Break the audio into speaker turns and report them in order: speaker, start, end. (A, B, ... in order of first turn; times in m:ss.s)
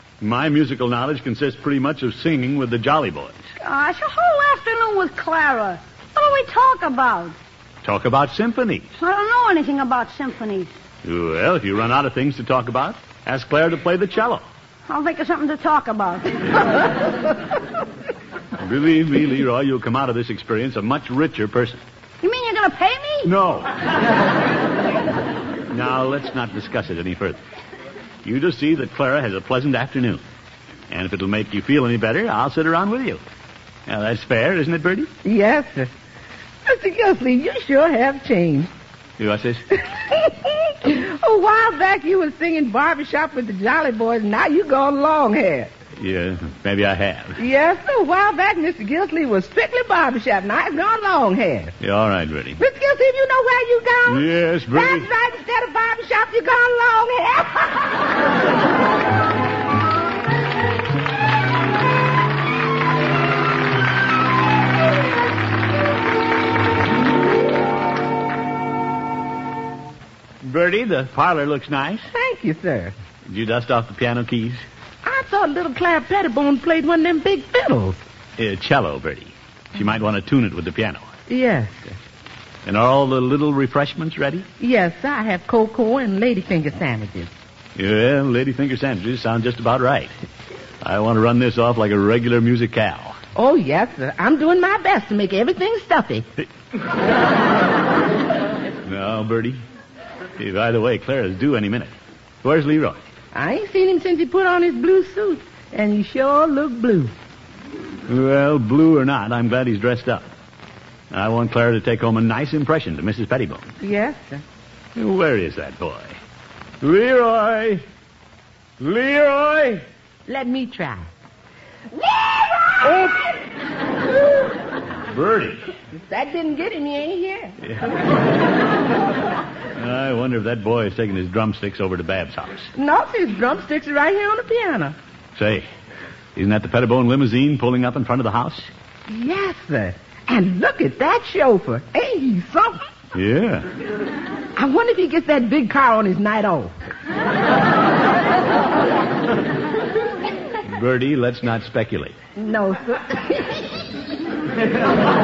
0:00.2-0:03.4 A
0:03.6-0:07.4 B
0:07.8-0:08.9 A
0:09.0-0:10.7 B
0:11.0-0:14.4 A
0:14.9-0:16.4 B
0:18.6-0:21.8 A
0:22.2-0:23.3 B
0:23.2-0:24.0 A
0:25.7-0:27.4 A
0:28.2-0:30.2 A
0:30.9-0:33.2 A
0:33.9-0:35.1 A
0:35.2-0:35.9 C
0:36.6-0:38.7 C
0:39.2-0:39.6 A
0:40.1-0:45.7 C
0:46.0-0:47.4 A
0:47.4-0:51.7 C
0:51.8-0:52.6 A
0:52.6-0:58.1 C
0:54.1-0:55.1 A
1:10.4-1:12.1 A
1:12.1-1:12.9 C
1:13.3-1:14.6 A
1:15.0-1:18.0 C
1:18.4-1:21.1 A
1:21.3-1:22.0 C
1:22.7-1:24.5 A
1:24.6-1:27.3 C
1:27.8-1:30.1 A
1:30.8-1:33.2 A
1:33.4-1:36.3 C
1:38.8-1:39.6 A
1:40.4-1:43.0 A
1:43.3-1:47.1 C
1:48.1-1:50.3 A
1:51.1-1:53.8 A
1:53.8-1:54.4 C
1:55.0-1:56.2 A
1:56.8-1:57.8 A
1:58.8-1:59.8 A
2:00.3-2:01.1 C
2:01.9-2:03.4 C
2:05.1-2:05.7 A
2:05.9-2:07.6 C
2:07.7-2:08.0 A
2:09.7-2:12.7 A
2:12.8-2:15.0 C
2:15.4-2:15.7 A
2:16.4-2:18.7 A
2:19.1-2:22.8 C
2:23.1-2:23.7 A
2:24.6-2:26.7 C
2:30.7-2:32.2 A
2:32.4-2:33.7 C